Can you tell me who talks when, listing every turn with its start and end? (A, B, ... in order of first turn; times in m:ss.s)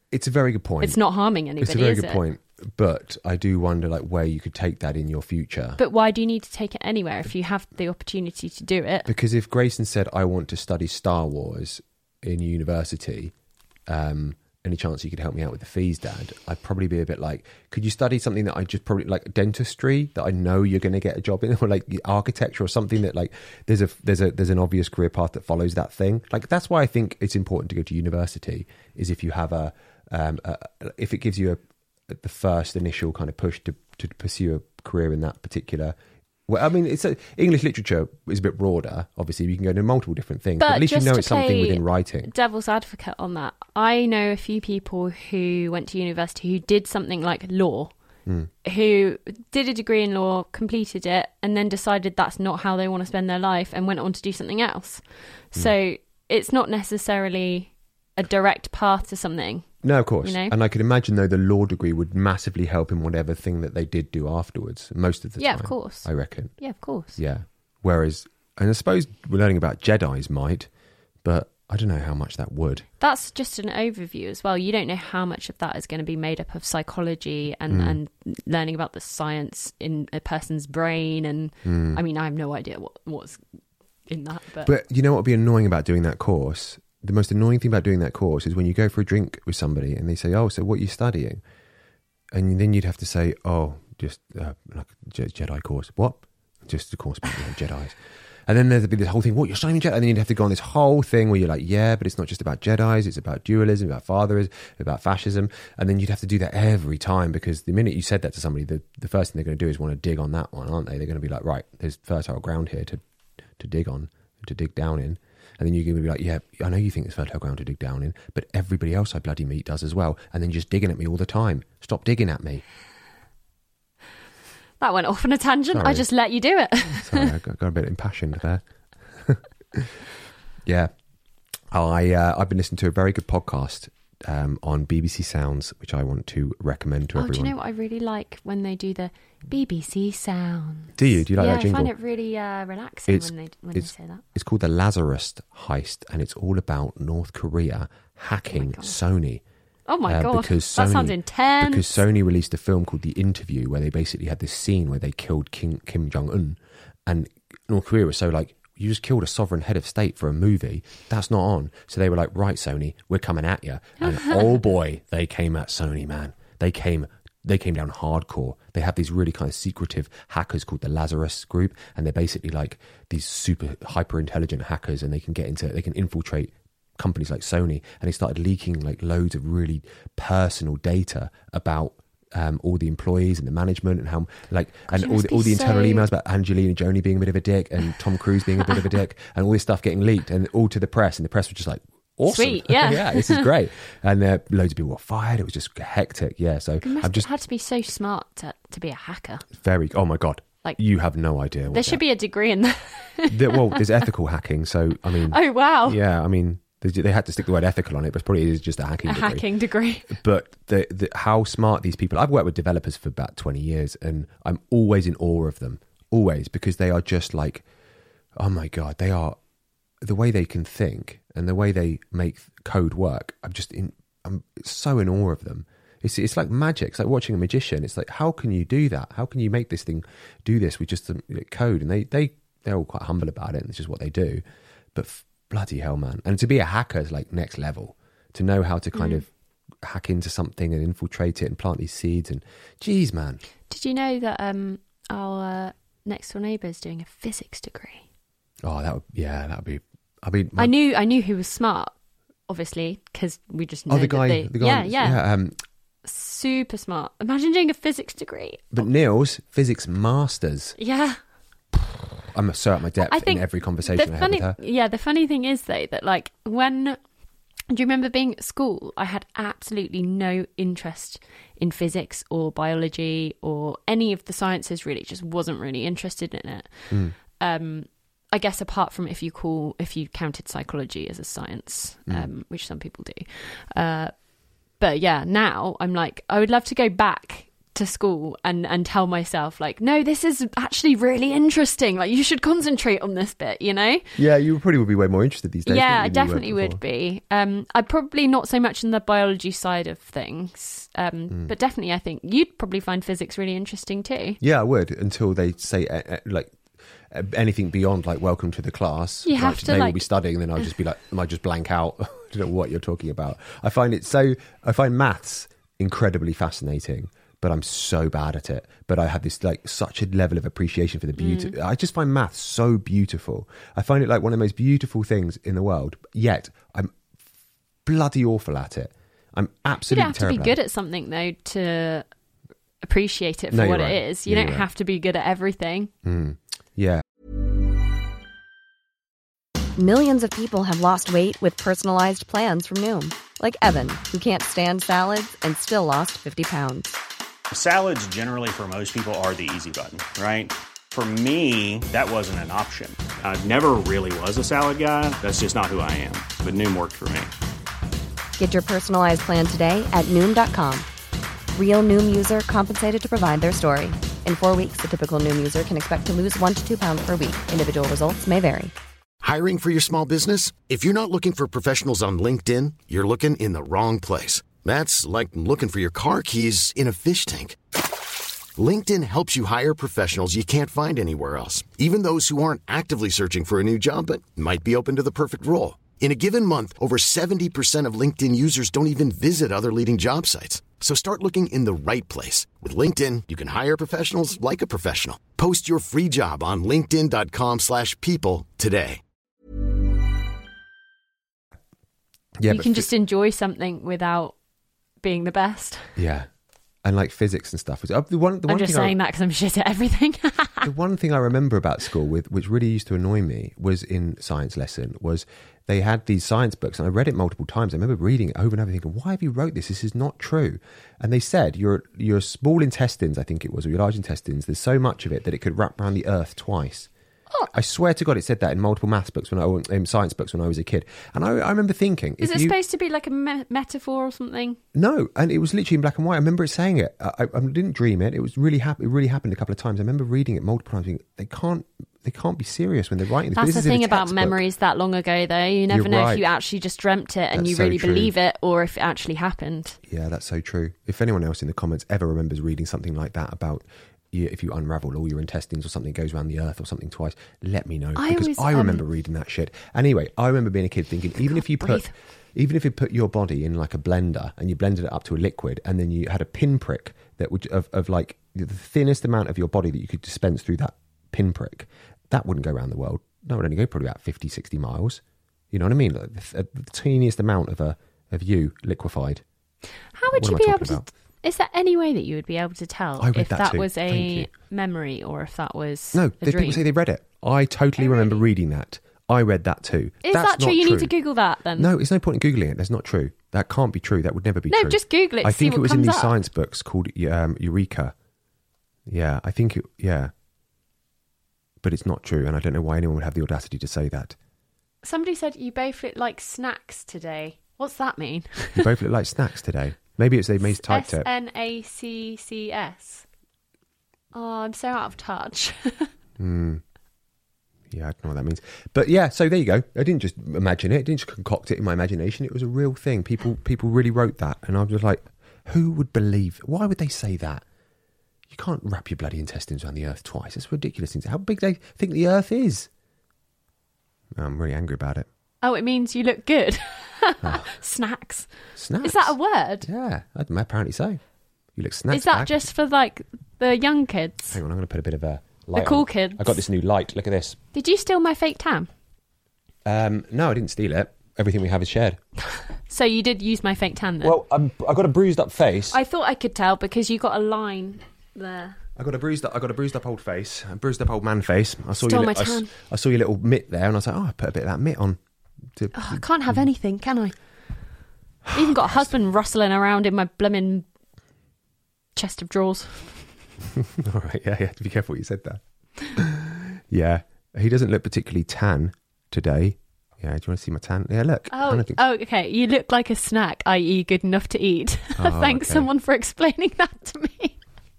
0:00.1-0:01.0 A
0:00.8-0:02.2 B
0:01.6-0:05.8 A
0:05.8-0:09.1 B
0:09.0-0:13.3 A
0:13.8-0:36.0 A
0:36.5-0:42.3 A
0:40.6-0:47.9 B
0:48.6-1:00.5 B
0:59.8-1:10.7 A
1:05.4-1:07.2 B
1:11.2-1:12.8 A
1:13.0-1:23.4 B
1:17.7-1:18.0 A
1:21.6-1:22.0 A
1:24.0-1:24.7 B
1:24.6-1:31.4 A
1:32.3-1:53.0 A
1:53.6-2:02.6 A
2:04.8-2:07.3 B
2:05.7-2:06.1 A
2:06.9-2:10.0 A
2:10.6-2:10.9 A
2:11.7-2:17.5 A
2:17.1-2:24.2 B
2:21.0-2:21.9 A
2:23.1-2:29.4 A
2:28.5-2:29.0 B
2:29.9-2:32.0 B
2:30.1-3:17.3 A
2:44.0-2:44.4 B
3:04.9-3:06.1 B
3:12.3-3:13.5 B
3:16.8-3:19.4 B
3:19.6-3:22.0 A
3:21.7-3:23.8 B
3:23.3-3:29.4 A
3:25.3-3:26.0 B
3:29.1-3:30.2 B
3:30.1-3:37.6 A
3:38.4-3:39.4 A
3:40.0-3:54.4 A
3:54.9-4:03.4 A
3:58.9-3:59.2 B
4:03.7-4:08.0 B
4:08.6-4:10.7 A
4:10.6-4:11.9 B
4:12.5-4:15.2 B
4:13.9-4:15.6 A
4:16.0-4:18.8 B
4:18.7-4:20.8 A
4:20.8-4:21.2 B
4:22.3-4:24.6 A
4:23.0-4:27.0 B
4:27.7-4:44.2 B
4:36.9-4:37.1 A
4:44.7-4:54.1 B
4:54.1-4:56.8 A
4:55.6-5:04.4 B
5:04.4-5:27.0 A
5:09.2-5:10.0 B
5:21.2-5:21.5 B
5:27.8-5:30.6 A
5:29.9-5:32.0 B
5:32.8-5:35.9 B
5:33.5-5:34.7 A
5:36.0-5:37.0 A
5:39.8-5:46.9 C
5:47.5-5:57.3 D
5:58.4-6:00.9 C
6:01.5-6:08.7 C
6:09.2-6:17.6 E
6:18.6-6:39.0 E
6:42.4-6:42.9 A
6:42.5-6:44.4 B
6:45.0-6:46.0 B
6:46.0-6:46.3 A
6:46.8-6:49.0 A
6:48.5-6:50.7 B
6:50.6-7:06.9 A
7:07.5-7:12.5 A
7:12.2-7:14.6 B
7:14.7-7:24.4 A
7:23.3-7:29.8 B
7:25.7-7:26.3 A
7:27.3-7:28.1 A
7:29.9-7:59.2 A
7:37.9-7:38.8 B
7:41.4-7:41.9 B
7:59.9-8:06.6 B
8:00.1-8:00.8 A
8:03.0-8:04.3 A
8:05.9-8:10.9 A
8:07.8-8:08.2 B
8:10.0-8:11.7 B
8:11.5-8:17.9 A
8:14.5-8:16.2 B
8:18.8-8:20.1 A
8:21.6-8:24.2 A
8:24.8-8:28.7 B
8:28.6-8:31.1 A
8:30.4-8:33.0 B
8:34.1-8:35.9 B
8:36.2-8:36.6 A
8:37.7-8:47.4 A
8:48.3-8:52.7 A
8:54.2-8:55.1 A
8:55.4-8:59.7 B
8:58.5-9:01.0 A
9:01.5-9:02.4 A
9:01.9-9:04.4 B
9:04.3-9:07.4 A
9:05.5-9:06.4 B
9:07.5-9:08.7 B
9:09.6-9:12.0 A
9:12.3-9:14.2 B
9:14.0-9:15.8 A
9:15.7-9:18.6 B
9:18.8-9:25.0 A
9:21.8-9:22.5 B
9:25.5-9:26.4 A
9:25.7-9:27.1 B
9:28.2-9:28.9 A
9:28.3-9:30.7 B
9:32.0-9:33.1 B
9:33.7-9:35.4 A
9:35.9-9:41.8 A
9:41.3-9:47.4 B
9:45.0-9:45.7 A